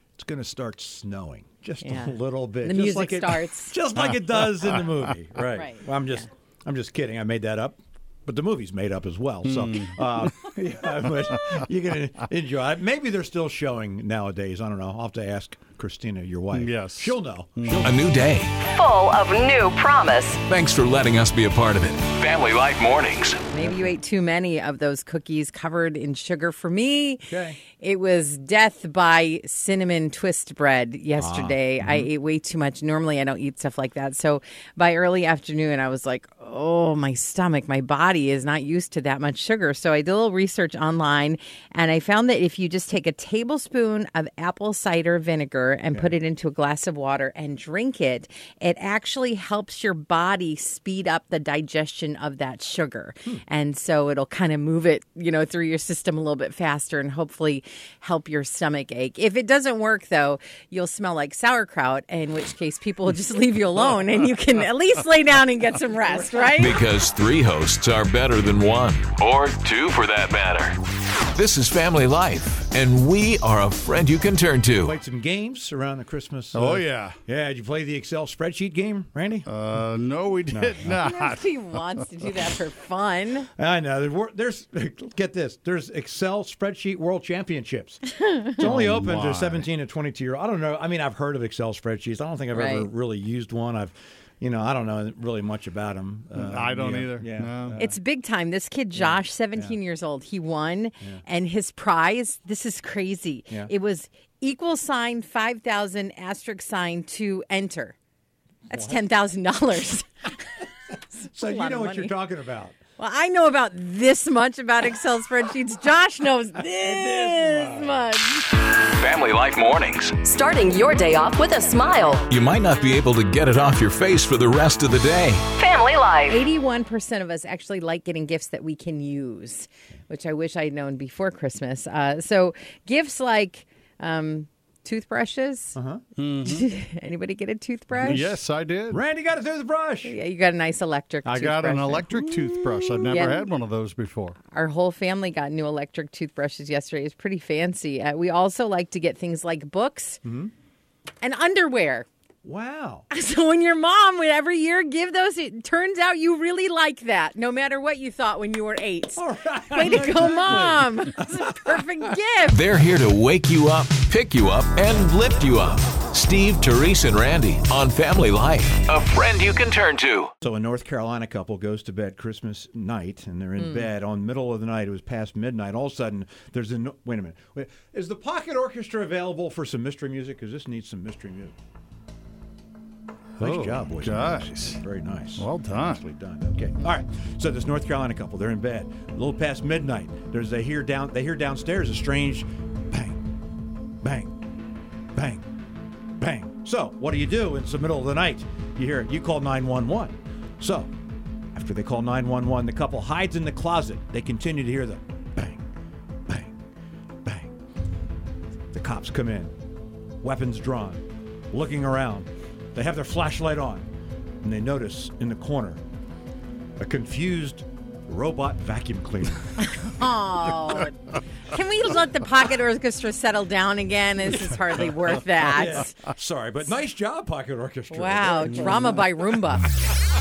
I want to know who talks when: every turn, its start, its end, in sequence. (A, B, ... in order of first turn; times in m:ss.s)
0:00.2-0:18.0 A
0:01.8-0:03.8 B
0:05.5-0:05.9 B
0:09.4-0:10.3 C
0:16.5-0:18.0 C
0:17.8-0:18.6 D
0:18.6-0:20.4 E
0:20.4-0:23.4 D
0:23.5-1:06.8 B
0:27.3-0:27.6 A
0:31.2-0:32.1 A
1:06.2-1:06.7 A
1:06.6-1:10.8 D
1:11.3-1:15.0 D
1:14.8-1:19.5 A
1:16.5-1:17.2 C
1:19.5-1:21.8 C
1:20.5-1:20.9 A
1:20.9-1:23.5 B
1:23.6-1:28.0 A
1:28.2-1:28.5 B
1:28.5-1:37.9 A
1:28.6-1:29.7 C
1:32.5-1:32.9 B
1:36.4-1:37.9 C
1:37.8-1:48.0 B
1:39.0-1:39.8 A
1:48.7-1:50.1 B
1:51.0-1:52.1 B
1:51.3-1:52.8 A
1:53.0-1:58.5 B
1:56.8-1:58.0 A
1:59.0-2:00.2 D
2:00.2-2:02.2 E
2:02.3-2:05.5 D
2:05.6-2:06.4 E
2:06.3-2:15.8 B
2:15.8-2:16.0 A
2:16.2-2:16.7 C
2:16.4-2:18.3 B
2:18.0-2:18.2 A
2:18.0-2:19.0 C
2:18.9-2:20.2 A
2:20.0-2:22.1 B
2:21.2-2:24.4 C
2:23.1-2:23.5 B
2:24.5-2:30.2 B
2:30.2-2:30.5 A
2:31.2-2:32.1 B
2:32.4-2:33.1 A
2:33.1-2:42.7 B
2:39.2-2:41.8 A
2:42.5-2:50.3 D
2:50.4-3:01.6 A
2:53.6-2:53.9 B
3:03.4-3:13.3 A
3:03.4-3:04.8 C
3:05.3-3:06.0 C
3:14.0-3:14.4 A
3:15.2-3:15.5 A
3:16.2-3:20.9 A
3:21.6-3:25.6 A
3:26.3-3:26.6 A
3:27.2-3:27.5 A
3:28.7-3:29.5 A
3:30.2-3:33.9 A
3:34.4-3:35.8 A
3:36.8-3:39.6 A
3:39.6-3:41.0 B
3:41.5-3:46.0 B
3:45.4-3:48.9 A
3:47.9-3:49.7 B